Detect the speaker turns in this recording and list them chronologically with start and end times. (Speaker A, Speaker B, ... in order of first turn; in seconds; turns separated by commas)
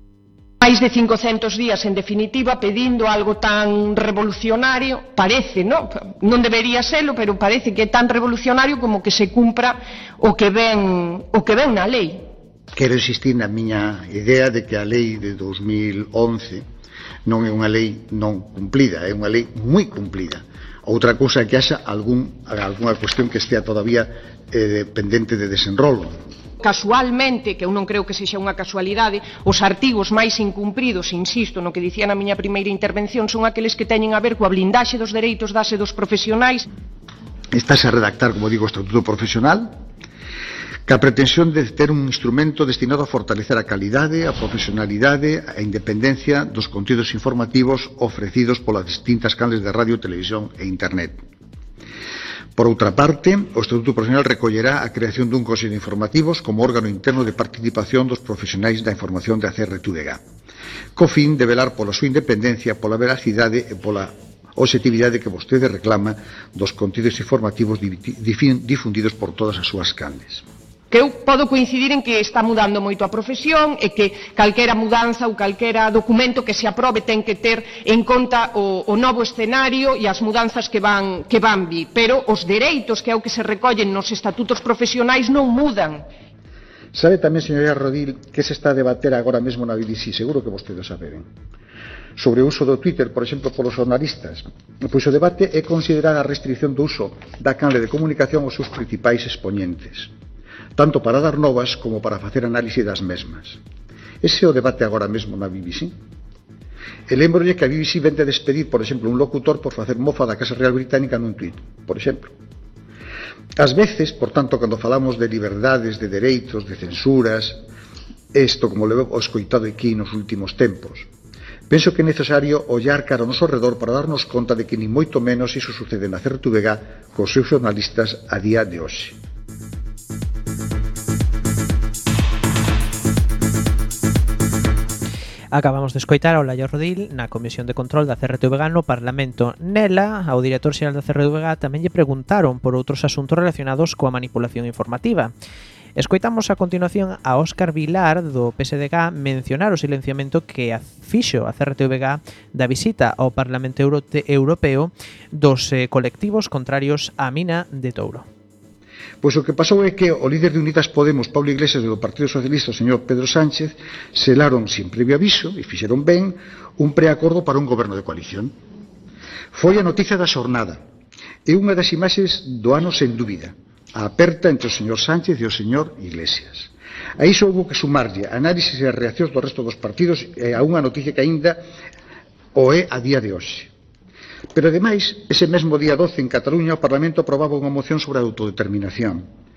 Speaker A: 0.6-12.3, Speaker B: 12.8-16.6, Speaker B: 17.3-26.2, Speaker A: 26.6-36.7, Speaker B: 37.5-39.8, Speaker B: 40.9-51.2, Speaker B: 52.6-60.2, Speaker B: 61.0-70.5, Speaker A: 70.9-86.1, Speaker B: 86.9-91.3, Speaker B: 92.2-100.1, Speaker B: 100.8-103.6, Speaker B: 104.2-106.0, Speaker B: 107.1-112.3, Speaker B: 113.6-117.6, Speaker B: 118.3-121.1, Speaker B: 121.7-129.2, Speaker C: 135.5-145.3, Speaker C: 146.0-158.3, Speaker B: 159.2-168.5, Speaker B: 169.5-170.8, Speaker B: 171.4-181.6, Speaker B: 182.6-183.7, Speaker B: 184.5-189.3